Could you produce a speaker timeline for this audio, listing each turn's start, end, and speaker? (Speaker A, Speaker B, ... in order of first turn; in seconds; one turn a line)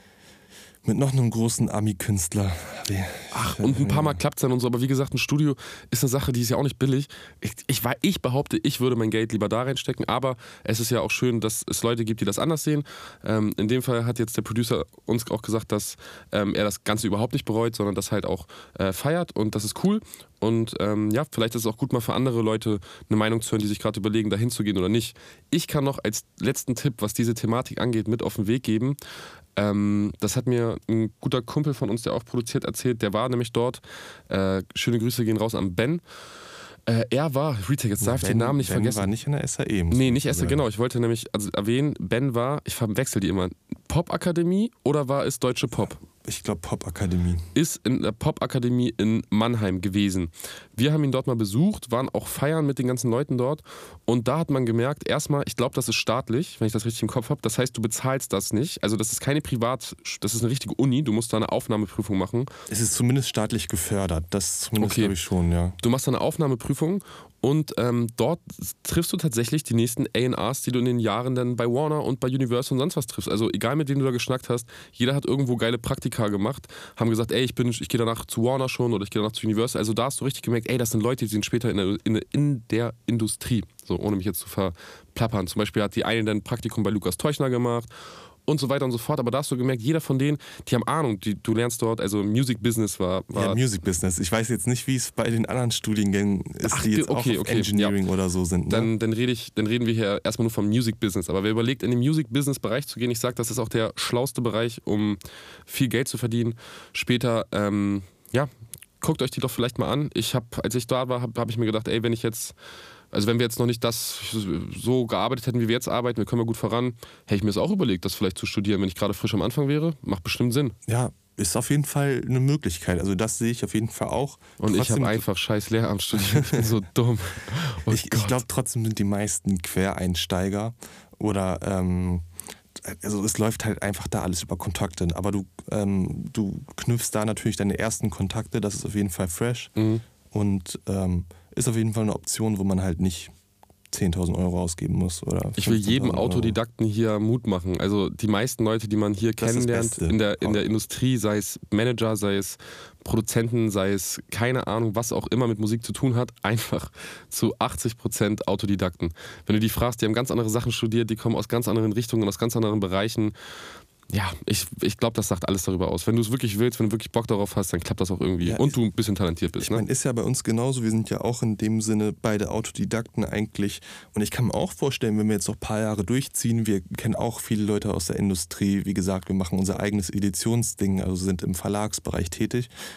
Speaker A: 0.8-4.2
Speaker B: 3.3-29.0
Speaker B: 29.6-36.0
Speaker B: 36.9-39.1
Speaker A: 38.0-40.6
Speaker B: 39.9-46.0
Speaker A: 46.2-47.5
Speaker B: 47.5-62.5
Speaker A: 62.7-65.8
Speaker B: 64.8-65.1
Speaker B: 65.8-87.9
Speaker B: 88.5-93.6
Speaker A: 93.3-98.9
Speaker B: 96.7-98.0
Speaker B: 98.7-108.5
Speaker B: 109.0-112.5
Speaker B: 113.1-120.7
Speaker A: 120.9-125.2
Speaker B: 124.6-128.4
Speaker A: 126.1-126.7
Speaker A: 127.9-132.2
Speaker A: 132.8-139.7
Speaker B: 139.8-140.0
Speaker A: 140.3-143.3
Speaker A: 143.9-146.6
Speaker B: 145.6-163.3
Speaker A: 149.4-150.7
Speaker B: 164.1-169.8
Speaker A: 168.4-168.8
Speaker A: 169.6-182.7